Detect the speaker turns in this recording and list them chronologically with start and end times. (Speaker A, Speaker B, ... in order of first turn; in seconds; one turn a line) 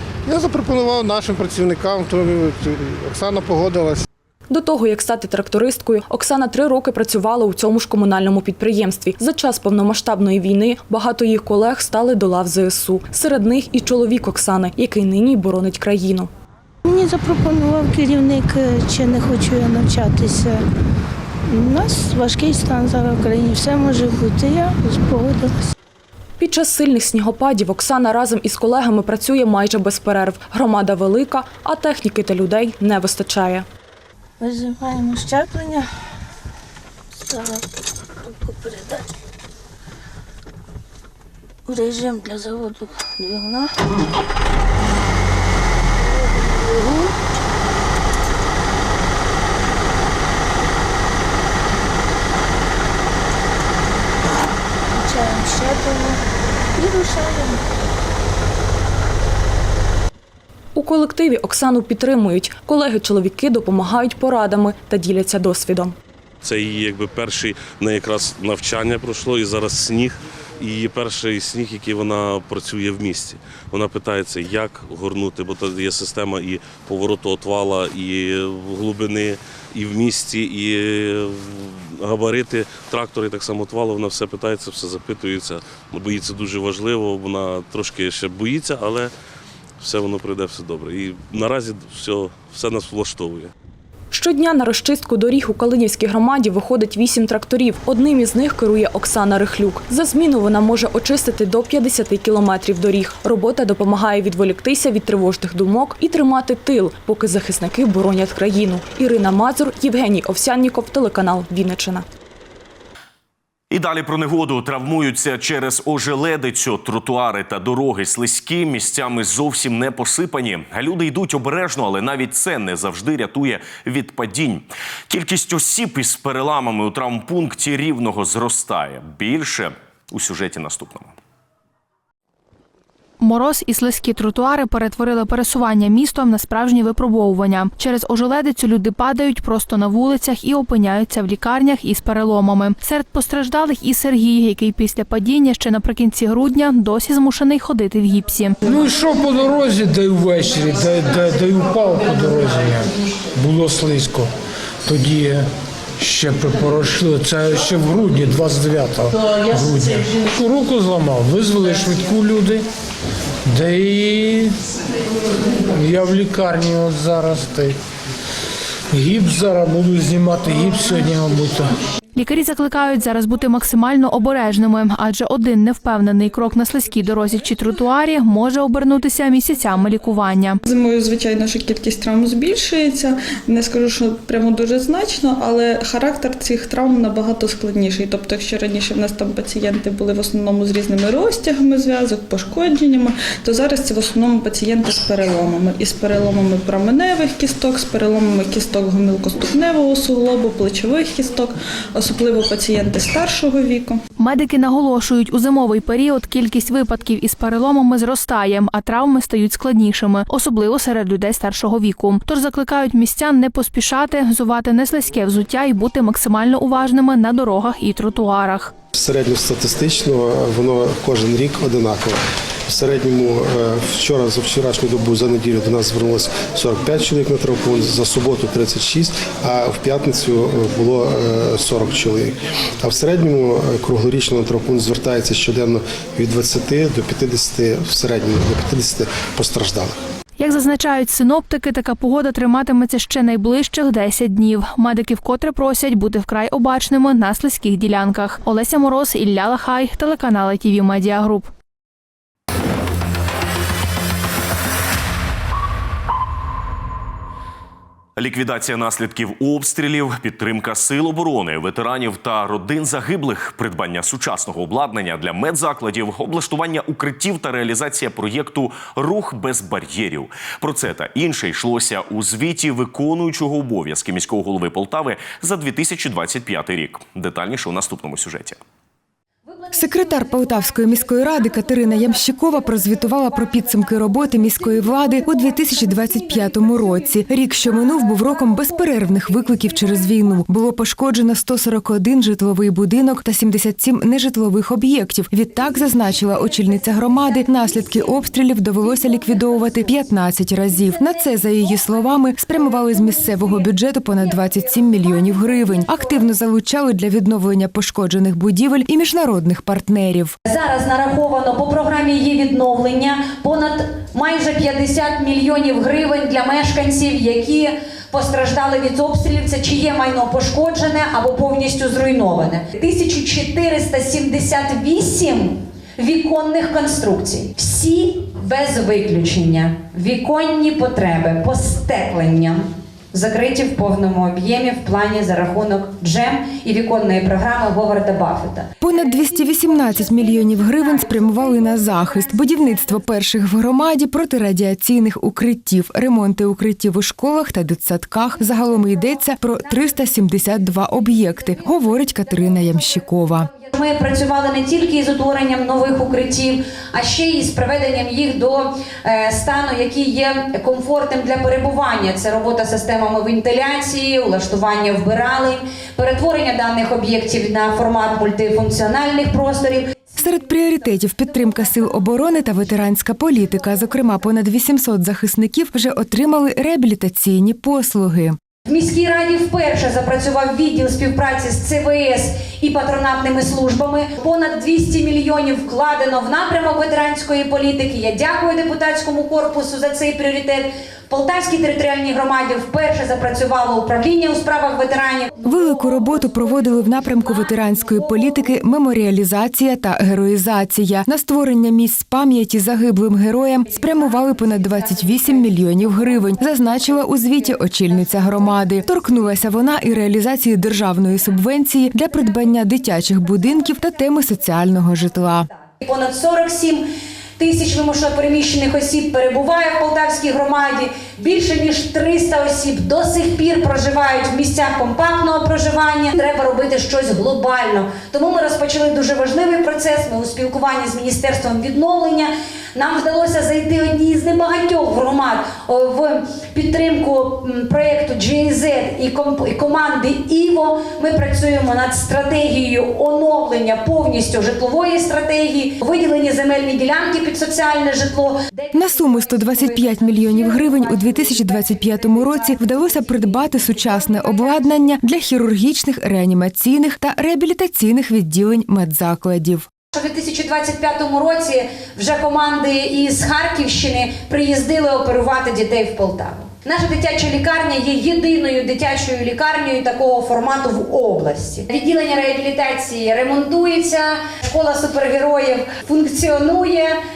Speaker A: 0.2-4.0
Speaker B: 4.5-16.3
Speaker C: 16.9-20.7
Speaker C: 21.5-25.6
Speaker B: 26.4-33.7
Speaker C: 34.4-35.9
Speaker C: 37.2-37.6
Speaker C: 38.2-39.1
Speaker C: 41.7-43.7
Speaker C: 46.0-47.1
Speaker C: 54.9-56.2
Speaker C: 56.7-57.6
Speaker B: 60.7-65.9
Speaker D: 66.4-89.1
Speaker D: 89.8-93.5
Speaker B: 94.1-112.0
Speaker E: 113.7-131.2
Speaker F: 133.2-148.6
Speaker G: 148.6-154.3
Speaker G: 154.8-155.5
Speaker G: 156.0-162.7
Speaker G: 163.5-164.6
Speaker G: 165.7-167.8
Speaker G: 168.9-171.7
Speaker F: 172.1-180.6
Speaker H: 180.6-204.0
Speaker F: 204.2-218.7
Speaker I: 218.9-240.0
Speaker F: 240.4-251.5
Speaker E: 258.1-278.6
Speaker J: 279.7-310.3
Speaker K: 310.4-338.7
Speaker J: 338.8-353.5
Speaker K: 353.7-369.9
Speaker J: 370.1-378.4
Speaker K: 378.7-395.3
Speaker J: 395.4-415.5
Speaker K: 415.8-416.9
Speaker K: 417.4-448.6
Speaker J: 448.7-459.6
Speaker K: 459.9-477.0